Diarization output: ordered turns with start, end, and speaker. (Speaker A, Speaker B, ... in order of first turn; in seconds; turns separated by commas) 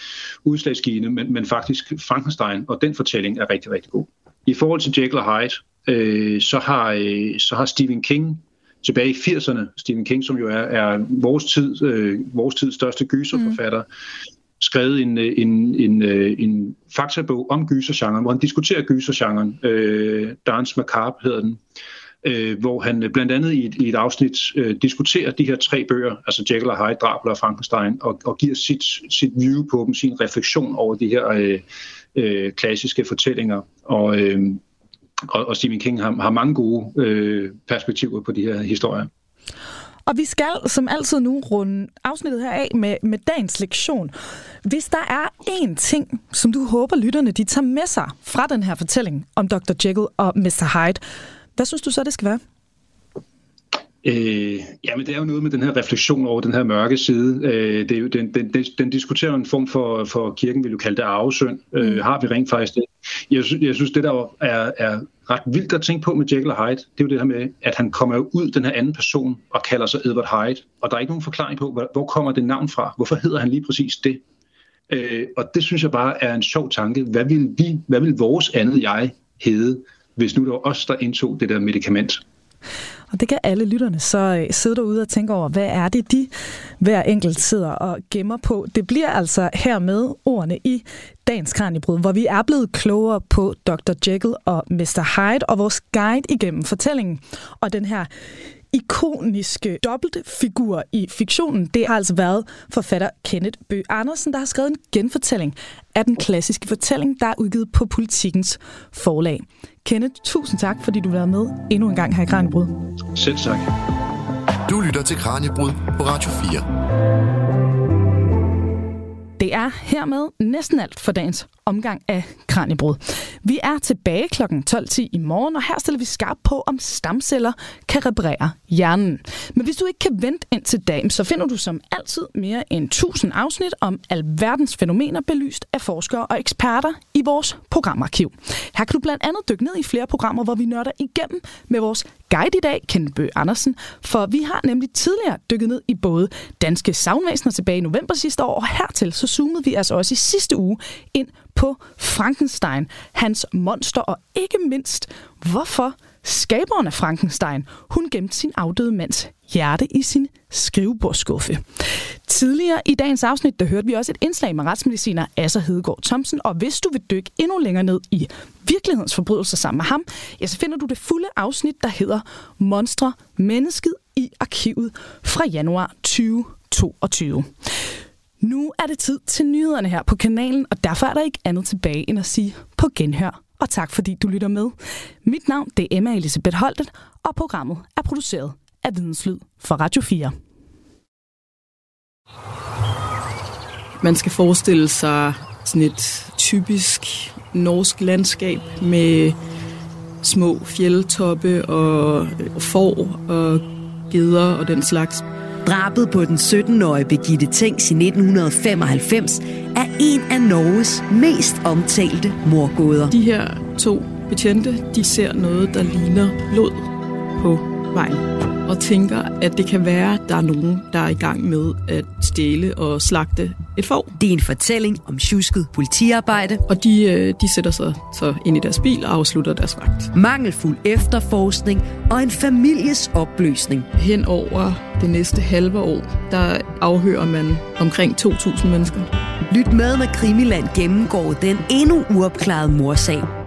Speaker A: 0.5-13.8, Speaker A: 14.6-21.6, Speaker A: 22.2-31.6, Speaker A: 32.1-34.6, Speaker A: 35.3-39.1, Speaker B: 40.1-44.1, Speaker B: 44.6-51.0, Speaker B: 51.6-52.4, Speaker A: 54.0-74.2, Speaker A: 74.9-82.2, Speaker B: 83.1-98.1, Speaker B: 98.7-112.7, Speaker A: 113.2-113.7, Speaker C: 114.7-116.7, Speaker B: 119.4-161.6, Speaker B: 162.3-177.5, Speaker B: 178.4-190.3, Speaker D: 194.0-199.4, Speaker D: 200.2-205.2, Speaker E: 205.7-213.1, Speaker D: 213.1-224.2, Speaker E: 224.2-226.6, Speaker D: 226.7-230.1, Speaker E: 230.1-233.9, Speaker D: 233.9-239.1, Speaker E: 239.5-243.3